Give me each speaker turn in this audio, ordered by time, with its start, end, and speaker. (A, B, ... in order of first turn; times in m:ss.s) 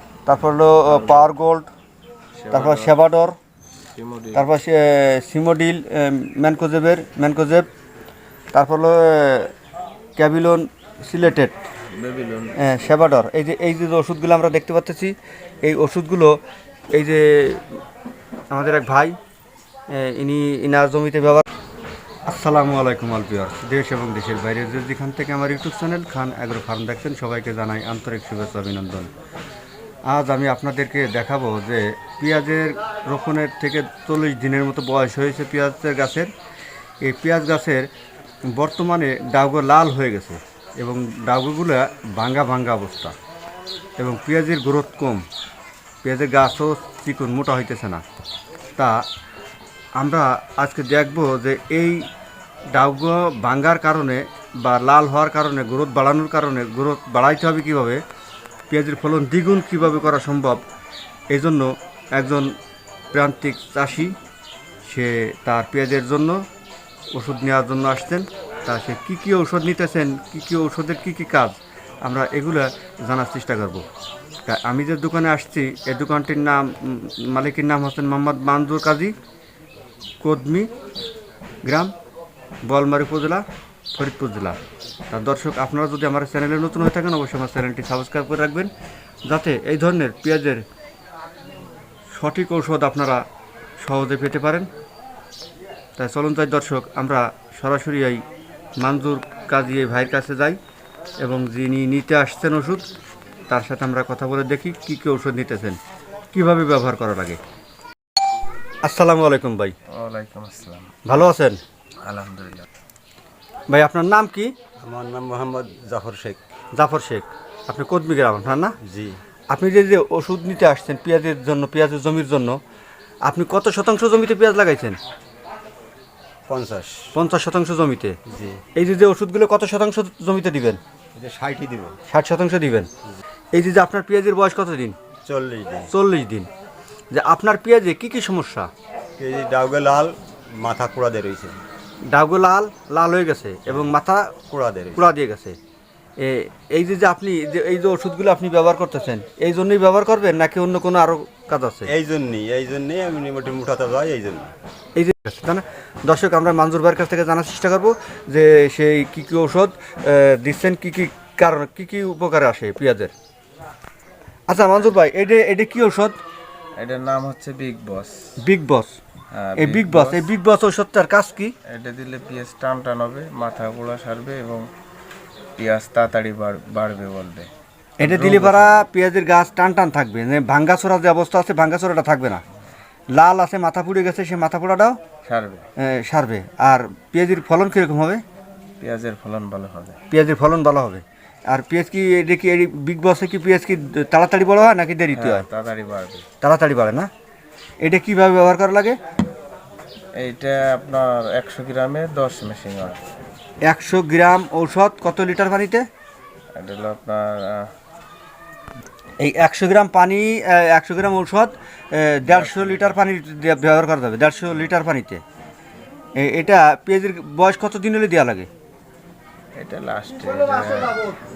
0:00.3-0:01.7 A
0:00.9-0:01.3 B
0:02.4-0:02.9 B
0:02.5-0:03.4 A
0:03.9-0:04.5 B
0:04.3-0:07.7 A
0:08.5-0:09.5 A
0:10.2-0:11.6 A
0:11.9-0:12.6 B
0:12.6-0:16.4 A
0:16.9-0:17.7 A
0:18.5-0:19.2 A
0:19.9-0:21.4 A
0:22.3-0:29.1 A
0:30.1-0:36.3 A
0:37.0-0:37.9 A
0:38.5-0:43.2 A
0:44.0-0:45.2 A
0:46.0-0:48.0 A
0:48.8-0:49.0 A
0:50.0-0:52.1 A
0:52.7-0:58.0 A
0:58.7-1:00.6 A
1:01.3-1:02.5 A
1:03.1-1:04.1 A
1:04.8-1:06.4 A
1:07.1-1:13.8 A
1:14.5-1:19.2 A
1:20.2-1:20.7 A
1:21.6-1:21.9 A
1:22.7-1:23.4 A
1:24.0-1:24.6 A
1:25.1-1:28.7 A
1:29.3-1:30.6 A
1:32.1-1:33.2 A
1:33.8-1:34.7 A
1:36.0-1:38.2 A
1:38.8-1:40.6 A
1:41.2-1:42.8 A
1:43.5-1:45.8 A
1:46.3-1:47.4 A
1:48.8-1:49.7 A
1:49.9-1:51.1 B
1:51.1-1:51.6 A
1:52.0-1:52.7 B
1:53.7-1:54.5 A
1:54.8-1:56.4 C
1:56.8-1:58.8 A
1:58.8-1:59.2 C
1:59.5-2:02.6 A
2:03.2-2:05.0 A
2:06.5-2:07.1 C
2:07.1-2:08.2 A
2:08.3-2:08.6 C
2:08.8-2:10.8 A
2:11.2-2:12.0 C
2:12.1-2:12.9 A
2:13.5-2:15.0 A
2:15.2-2:15.9 C
2:15.9-2:16.5 A
2:17.1-2:18.7 A
2:19.2-2:21.6 C
2:22.1-2:24.4 A
2:23.7-2:23.9 C
2:24.5-2:25.2 C
2:25.0-2:25.6 A
2:26.2-2:31.9 A
2:31.9-2:34.5 C
2:35.0-2:43.1 A
2:44.5-2:46.2 A
2:46.8-2:48.2 B
2:48.4-2:49.0 A
2:49.3-2:50.3 B
2:49.6-2:51.5 A
2:51.7-2:54.7 B
2:55.6-2:57.5 B
2:58.0-3:02.4 A
2:58.0-2:58.9 B
3:03.1-3:05.0 A
3:05.2-3:05.7 B
3:05.8-3:08.2 A
3:08.8-3:10.0 B
3:10.1-3:15.5 A
3:15.1-3:16.3 B
3:16.4-3:17.1 A
3:17.8-3:19.0 A
3:20.2-3:23.0 B
3:23.6-3:25.8 A
3:26.5-3:27.7 B
3:29.2-3:35.2 A
3:32.3-3:33.0 B
3:36.2-3:38.5 A
3:39.6-3:41.2 B